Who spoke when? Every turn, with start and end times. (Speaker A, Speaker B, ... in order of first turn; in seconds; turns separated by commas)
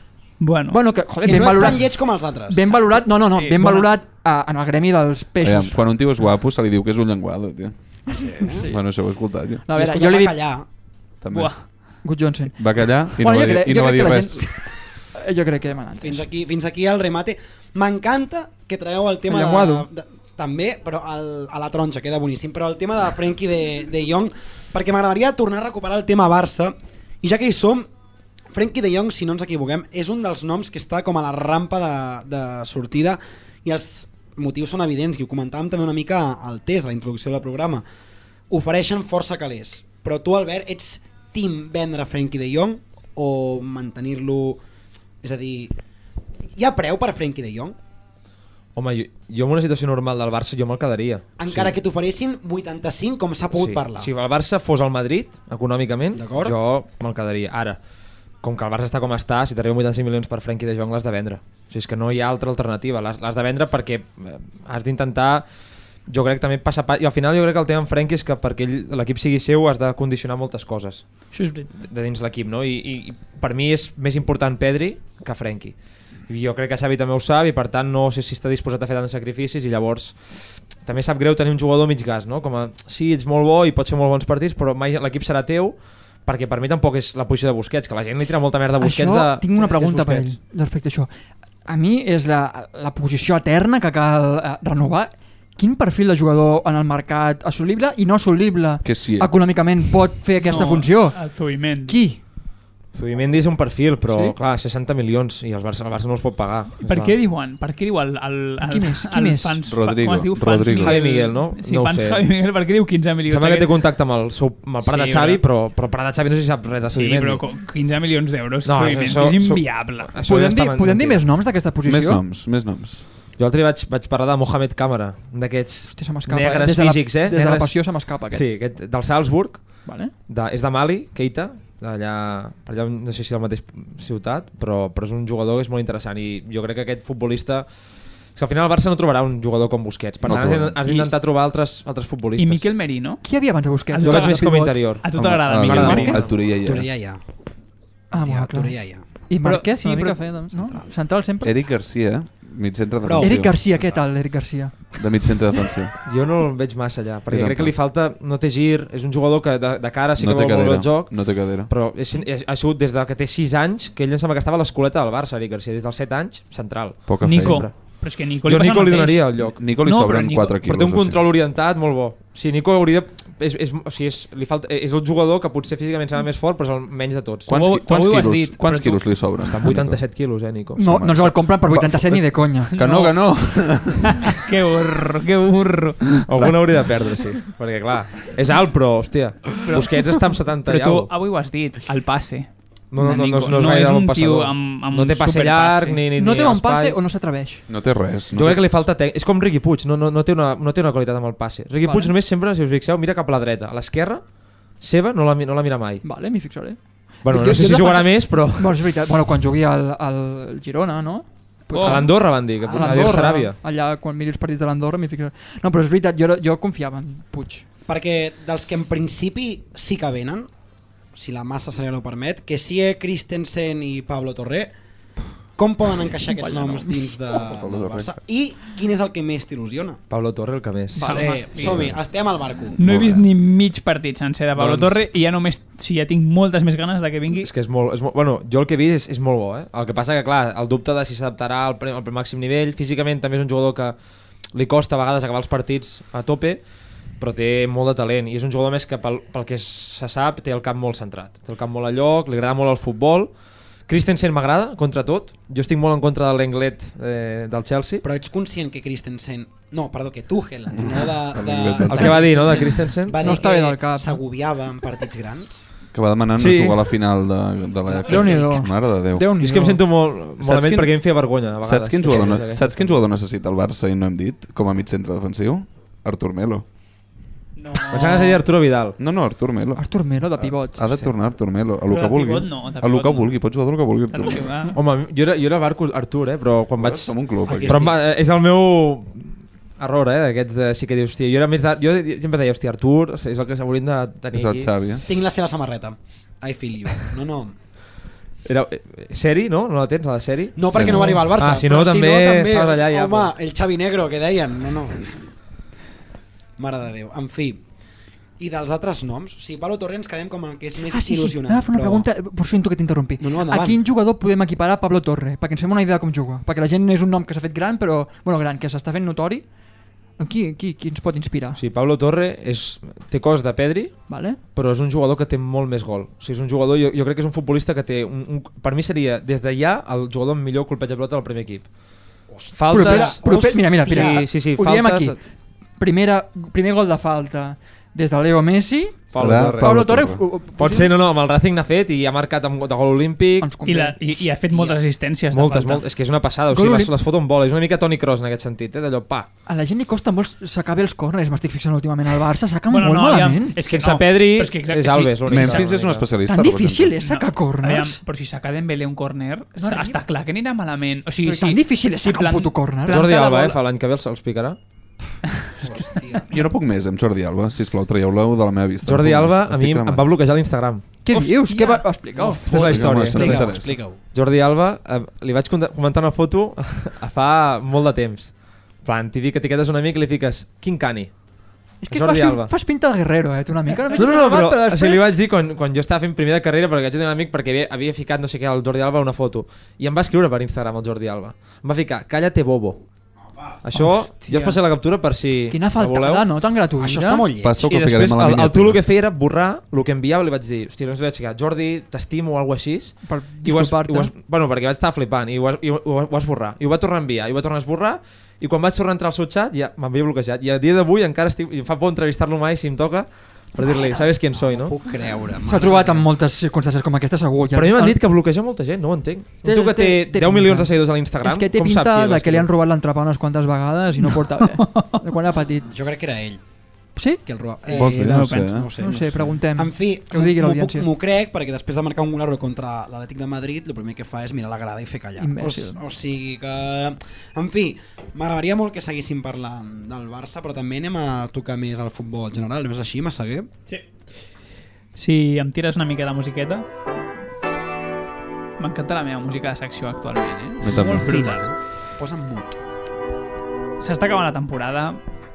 Speaker A: 0.4-0.8, Speaker B: 0.7-5.8, Speaker C: 1.2-2.6, Speaker A: 3.3-3.9, Speaker D: 5.4-8.1, Speaker C: 8.1-8.7, Speaker B: 8.4-8.9, Speaker D: 8.7-9.6, Speaker B: 9.7-10.5, Speaker C: 9.7-10.7, Speaker D: 11.2-12.0, Speaker A: 11.3-12.0, Speaker B: 12.0-16.2, Speaker D: 12.6-14.4, Speaker C: 16.0-27.9, Speaker B: 19.3-19.9, Speaker C: 28.5-37.8, Speaker C: 38.5-44.6, Speaker C: 45.2-45.8, Speaker C: 46.6-47.8, Speaker E: 48.8-51.7, Speaker C: 51.4-54.1, Speaker E: 53.5-57.8, Speaker C: 56.1-56.5, Speaker E: 58.4-65.5, Speaker E: 66.1-71.2, Speaker A: 71.3-71.7, Speaker E: 71.8-90.3, Speaker B: 88.8-91.1, Speaker B: 91.7-102.2, Speaker D: 98.8-99.6, Speaker A: 100.4-102.0, Speaker E: 102.9-107.2, Speaker B: 104.0-104.4, Speaker A: 106.8-113.7, Speaker B: 108.6-109.6, Speaker D: 109.7-111.0, Speaker E: 110.7-112.2, Speaker E: 113.3-117.5, Speaker A: 114.8-115.4, Speaker A: 116.9-120.1, Speaker E: 118.7-121.2, Speaker B: 120.2-122.2, Speaker D: 121.9-123.0, Speaker E: 123.4-142.7, Speaker B: 125.9-128.5, Speaker B: 129.8-130.2, Speaker D: 140.2-140.8, Speaker A: 140.8-141.1, Speaker A: 142.4-143.2, Speaker B: 143.2-145.0, Speaker A: 143.9-146.2, Speaker E: 144.0-145.1, Speaker D: 145.2-146.9, Speaker E: 145.6-146.4, Speaker B: 145.8-146.1, Speaker C: 146.6-147.2, Speaker C: 148.1-149.0, Speaker B: 148.1-151.6, Speaker A: 149.4-150.4, Speaker C: 150.5-150.9, Speaker D: 151.4-153.9, Speaker C: 153.0-154.0, Speaker B: 153.2-155.0, Speaker D: 154.9-155.9, Speaker E: 156.0-167.8, Speaker D: 157.3-157.8, Speaker D: 160.2-161.7, Speaker D: 167.1-167.7, Speaker A: 167.2-170.5, Speaker E: 168.4-169.7, Speaker D: 169.6-171.2, Speaker E: 170.6-177.6, Speaker D: 177.5-180.0, Speaker A: 177.5-179.3, Speaker E: 179.5-181.0, Speaker B: 180.8-182.8, Speaker D: 180.8-184.3, Speaker A: 182.7-186.3, Speaker E: 186.3-191.1, Speaker A: 189.6-196.0, Speaker E: 192.9-197.0, Speaker B: 196.1-197.7, Speaker D: 197.7-198.7, Speaker E: 198.3-206.0, Speaker B: 201.8-202.1, Speaker B: 206.0-217.7, Speaker E: 207.2-208.9, Speaker A: 211.7-212.1, Speaker E: 211.8-213.6, Speaker C: 217.9-220.5, Speaker C: 221.2-224.7, Speaker C: 225.6-230.0, Speaker B: 226.3-227.1, Speaker D: 227.3-228.2, Speaker E: 230.1-231.3, Speaker A: 231.0-231.8, Speaker B: 231.0-231.4, Speaker C: 231.1-232.8, Speaker D: 231.6-233.3, Speaker A: 232.8-237.5, Speaker E: 234.6-235.1, Speaker E: 237.4-244.0, Speaker E: 244.5-246.6, Speaker E: 247.2-258.0, Speaker C: 258.0-265.6, Speaker D: 260.7-262.5, Speaker E: 261.9-263.4, Speaker B: 262.1-262.6, Speaker B: 263.2-264.2, Speaker D: 265.9-269.3, Speaker B: 266.4-266.9, Speaker B: 267.9-269.8, Speaker C: 268.1-268.4, Speaker E: 269.4-273.0, Speaker D: 270.4-276.6, Speaker A: 277.6-278.4, Speaker E: 277.9-279.0, Speaker D: 279.0-284.5, Speaker B: 279.8-281.1, Speaker A: 281.9-284.8, Speaker E: 284.7-294.7, Speaker D: 286.8-287.8, Speaker C: 287.5-288.0, Speaker D: 294.3-295.1, Speaker C: 295.1-297.6, Speaker E: 298.4-303.3, Speaker C: 300.6-305.3, Speaker D: 300.7-301.2, Speaker B: 300.9-301.2, Speaker C: 306.6-307.6, Speaker C: 308.4-312.1, Speaker B: 310.9-319.5, Speaker C: 313.2-313.8, Speaker B: 320.2-321.6, Speaker E: 321.6-331.7, Speaker B: 324.1-324.4, Speaker C: 332.3-334.2, Speaker E: 332.5-335.2, Speaker B: 332.7-335.2, Speaker B: 335.8-340.9, Speaker E: 339.1-339.8, Speaker D: 339.1-340.3, Speaker E: 340.6-343.5, Speaker B: 343.4-344.0, Speaker A: 343.6-345.8, Speaker E: 345.3-349.3, Speaker B: 346.5-346.9, Speaker B: 349.5-353.6, Speaker A: 352.7-355.7, Speaker E: 353.6-356.1, Speaker D: 355.3-356.9, Speaker B: 356.3-358.0, Speaker A: 357.0-362.6, Speaker B: 359.6-360.0, Speaker B: 361.2-363.6, Speaker E: 362.9-364.6, Speaker C: 365.6-366.4, Speaker D: 366.3-370.2, Speaker E: 368.8-370.9, Speaker B: 371.1-372.9, Speaker A: 371.1-371.8, Speaker C: 371.5-374.0, Speaker E: 372.1-381.2, Speaker D: 372.5-373.8, Speaker B: 381.8-385.1, Speaker E: 381.9-382.5, Speaker E: 383.9-392.9, Speaker E: 393.6-396.5, Speaker B: 393.7-394.6, Speaker B: 395.5-397.3, Speaker C: 396.8-397.6, Speaker D: 397.4-398.8, Speaker E: 397.6-414.7, Speaker B: 403.0-404.1, Speaker C: 414.3-416.1, Speaker B: 415.4-418.0, Speaker E: 417.5-422.5, Speaker B: 419.4-425.7, Speaker A: 424.1-425.0, Speaker C: 425.7-426.4, Speaker B: 427.0-427.2, Speaker C: 427.2-443.5, Speaker D: 427.8-428.7, Speaker A: 427.8-428.6, Speaker B: 428.8-430.9, Speaker B: 435.2-435.8, Speaker A: 444.9-446.6, Speaker A: 448.6-451.3, Speaker D: 450.6-451.4, Speaker C: 450.7-452.6, Speaker A: 453.8-455.0